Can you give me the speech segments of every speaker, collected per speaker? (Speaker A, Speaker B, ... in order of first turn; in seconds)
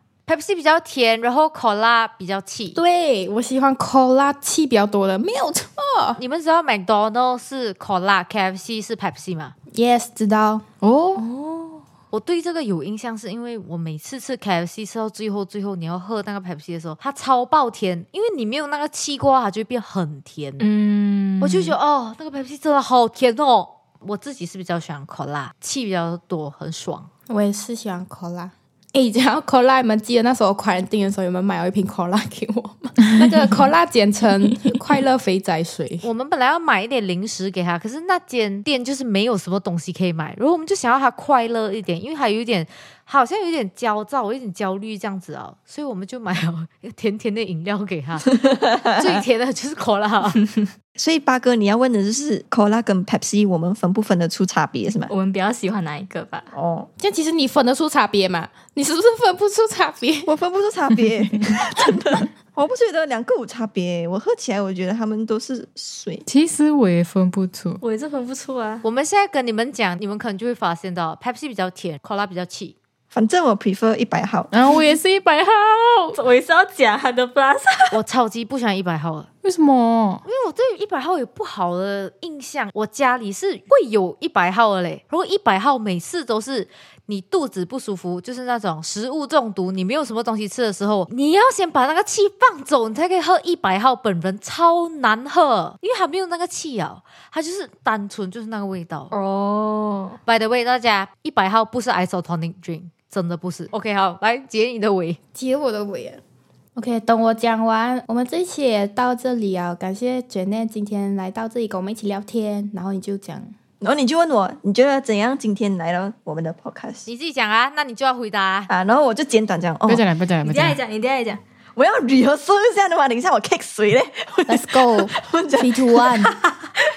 Speaker A: 0.3-2.8, 6.2-9.5, 12.1-20.7, 21.4-27.1, 36.0-50.4, 68.8-72.8, 77.9-79.3, 80.3-99.1, 100.3-105.2, 117.0-118.7
Speaker B: 2.8-6.2, 9.7-10.6, 27.3-36.0, 57.0-60.3, 105.4-106.2, 106.8-113.5, 124.5-126.3
Speaker C: 10.8-11.2, 66.3-67.8, 74.5-76.2, 79.4-80.2, 119.9-120.8
Speaker D: 11.2-11.8, 20.6-21.8, 55.1-56.5, 67.8-68.8, 76.1-78.0, 99.1-100.2, 120.4-121.4
Speaker E: 51.0-55.1, 56.5-56.9, 60.3-66.2, 73.1-74.5, 113.8-117.1, 118.7-120.0, 121.8-126.1